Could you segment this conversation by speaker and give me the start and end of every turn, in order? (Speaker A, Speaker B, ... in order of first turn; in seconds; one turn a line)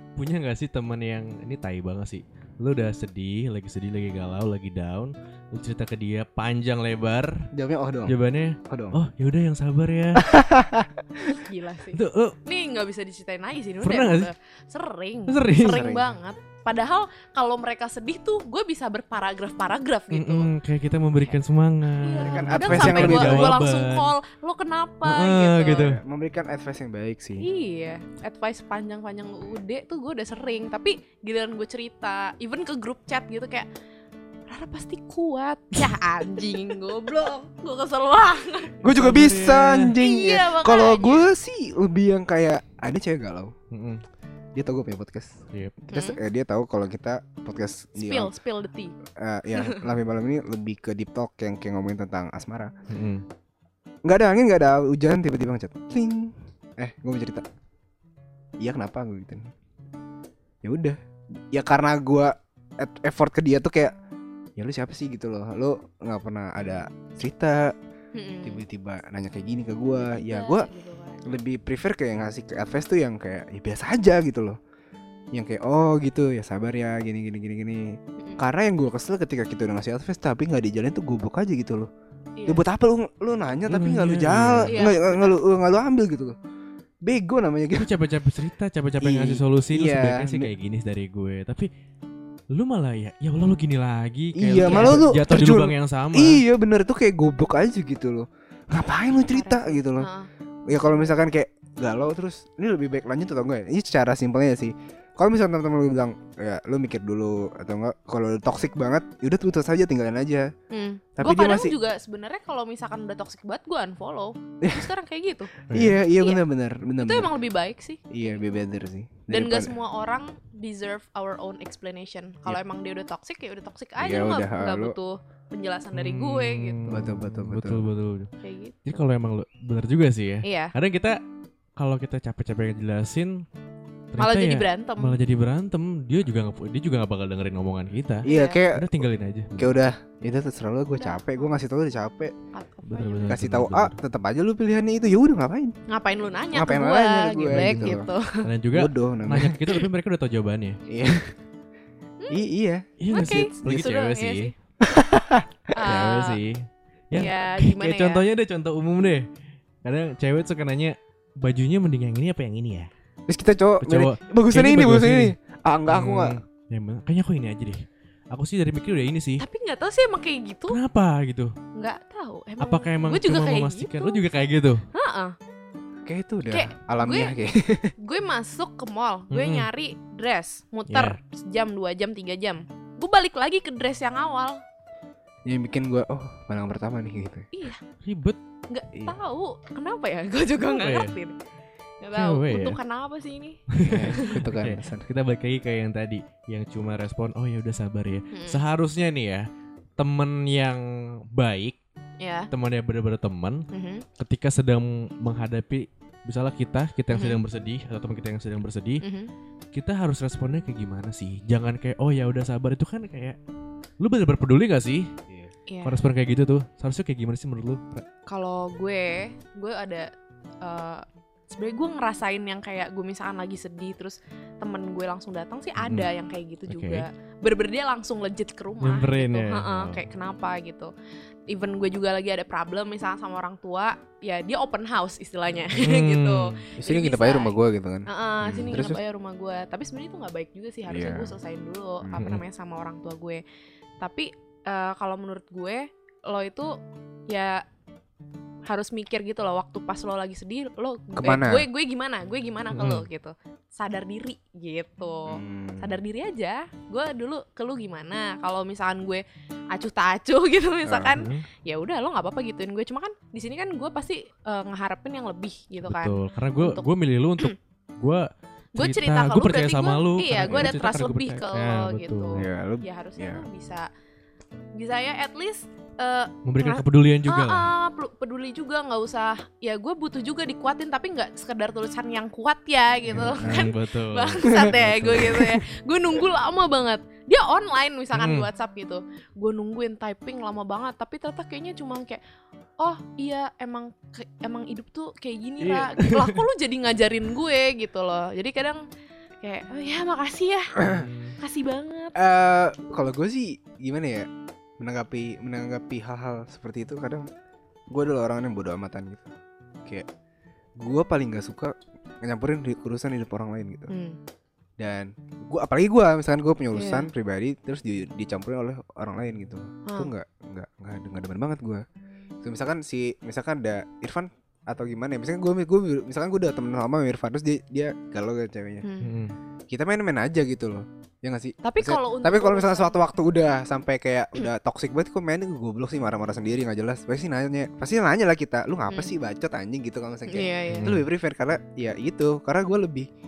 Speaker A: 0.2-7.5
Speaker B: 7.5-8.2
Speaker A: 8.1-10.4
Speaker B: 8.7-9.0
Speaker B: 10.2-11.4
Speaker C: 11.3-20.5
Speaker A: 11.9-12.4
Speaker A: 13.8-14.3
Speaker A: 15.3-15.8
Speaker B: 15.6-16.1
Speaker A: 20.1-24.1
Speaker C: 22.0-25.9
Speaker B: 22.2-23.6
Speaker A: 25.0-26.0
Speaker B: 25.7-27.5
Speaker C: 27.4-33.7
Speaker C: 34.5-38.8
Speaker B: 38.8-43.5
Speaker A: 38.8-39.9
Speaker C: 40.0-41.3
Speaker A: 43.7-44.0
Speaker B: 44.5-48.3
Speaker A: 45.5-45.8
Speaker C: 45.9-46.2
Speaker C: 48.0-48.9
Speaker B: 49.1-52.7
Speaker C: 49.5-49.8
Speaker A: 52.9-53.2
Speaker B: 54.0-57.4
Speaker B: 58.6-59.5
Speaker B: 60.6-61.0
Speaker B: 61.5-63.9
Speaker B: 64.6-67.7
Speaker C: 68.1-68.6
Speaker B: 68.4-70.7
Speaker C: 69.9-71.4
Speaker B: 71.2-74.6
Speaker B: 75.3-81.9
Speaker C: 82.4-82.6
Speaker B: 82.5-86.3
Speaker A: 83.7-84.8
Speaker C: 84.7-85.3
Speaker B: 87.0-87.9
Speaker A: 87.8-91.7
Speaker B: 89.0-90.5
Speaker A: 92.5-96.4
Speaker B: 94.3-100.1
Speaker C: 94.6-95.0
Speaker C: 99.3-101.1
Speaker B: 100.7-110.5
Speaker C: 110.7-115.5
Speaker B: 111.2-111.8
Speaker B: 114.6-114.9
Speaker A: 115.7-116.0
Speaker B: 115.7-117.3
Speaker C: 116.2-116.4
Speaker C: 117.0-118.5
Speaker B: 118.1-119.7
Speaker C: 119.3-127.0
Speaker B: 124.0-125.0
Speaker A: 125.9-128.3
Speaker B: 126.9-127.8
Speaker C: 128.4-129.0
Speaker A: 128.8-131.2
Speaker C: 130.4-130.7
Speaker A: 131.8-133.4
Speaker A: 134.1-139.9
Speaker C: 134.2-135.2
Speaker B: 138.2-138.9
Speaker C: 138.2-138.6
Speaker B: 139.6-142.3
Speaker C: 140.9-141.5
Speaker C: 142.5-143.4
Speaker A: 142.8-144.0
Speaker B: 143.3-145.7
Speaker C: 145.9-148.4
Speaker B: 146.5-148.1
Speaker A: 147.5-150.8
Speaker B: 148.7-149.6
Speaker B: 150.9-151.3
Speaker B: 152.3-152.9
Speaker A: 153.0-154.5
Speaker C: 153.1-154.5
Speaker B: 154.8-155.9
Speaker C: 155.7-156.4
Speaker A: 155.8-159.2
Speaker C: 157.2-158.2
Speaker A: 159.8-162.9
Speaker B: 163.3-166.3
Speaker A: 163.8-165.3
Speaker A: 165.9-169.4
Speaker C: 169.4-170.8
Speaker A: 170.7-171.6
Speaker C: 171.7-174.2
Speaker A: 172.6-174.8
Speaker C: 174.9-175.3
Speaker B: 176.0-177.9
Speaker C: 176.5-177.3
Speaker C: 178.0-184.6
Speaker A: 179.3-179.7
Speaker A: 180.9-181.2
Speaker B: 185.4-187.5
Speaker C: 187.5-187.8
Speaker A: 188.0-188.4
Speaker C: 188.7-191.3
Speaker A: 190.6-191.2
Speaker C: 192.0-194.4
Speaker A: 192.1-192.8
Speaker A: 193.7-199.4
Speaker B: 193.8-195.0
Speaker C: 198.3-198.6
Speaker A: 200.0-201.8
Speaker C: 202.2-202.5
Speaker A: 202.5-203.7
Speaker C: 203.7-204.0
Speaker A: 204.2-209.0
Speaker C: 207.1-207.4
Speaker C: 209.0-209.3
Speaker A: 209.7-213.4
Speaker A: 214.0-215.1
Speaker C: 215.7-216.0
Speaker A: 215.8-218.0
Speaker C: 218.3-220.1
Speaker C: 220.6-230.9
Speaker A: 225.8-226.1
Speaker A: 226.7-227.1
Speaker A: 228.8-230.0
Speaker C: 231.5-243.4
Speaker A: 235.8-236.6
Speaker B: 236.8-239.0
Speaker B: 240.9-241.3
Speaker A: 242.1-242.4
Speaker C: 244.0-246.8
Speaker C: 247.3-247.6
Speaker C: 248.7-266.9
Speaker B: 251.1-251.7
Speaker A: 252.7-253.0
Speaker B: 255.3-256.0
Speaker B: 260.8-261.2
Speaker A: 261.1-261.4
Speaker A: 265.8-272.4
Speaker C: 268.8-273.9
Speaker B: 270.4-270.7
Speaker B: 272.4-273.4
Speaker C: 274.7-292.2
Speaker A: 276.4-277.7
Speaker A: 283.1-285.4
Speaker B: 283.1-283.7
Speaker B: 284.5-285.4
Speaker A: 288.1-288.5
Speaker C: 292.8-298.8
Speaker A: 295.6-296.4
Speaker C: 299.4-300.8
Speaker A: 300.8-301.4
Speaker C: 301.4-302.2
Speaker B: 302.1-304.3
Speaker B: 304.8-307.3
Speaker B: 307.9-309.3
Speaker B: 310.8-313.9
Speaker C: 313.9-314.2
Speaker B: 314.8-321.8
Speaker C: 316.7-317.1
Speaker B: 322.4-328.9
Speaker C: 328.8-329.1
Speaker A: 329.0-329.4
Speaker B: 329.7-343.1
Speaker C: 331.6-333.0
Speaker C: 340.3-340.9
Speaker A: 340.7-341.0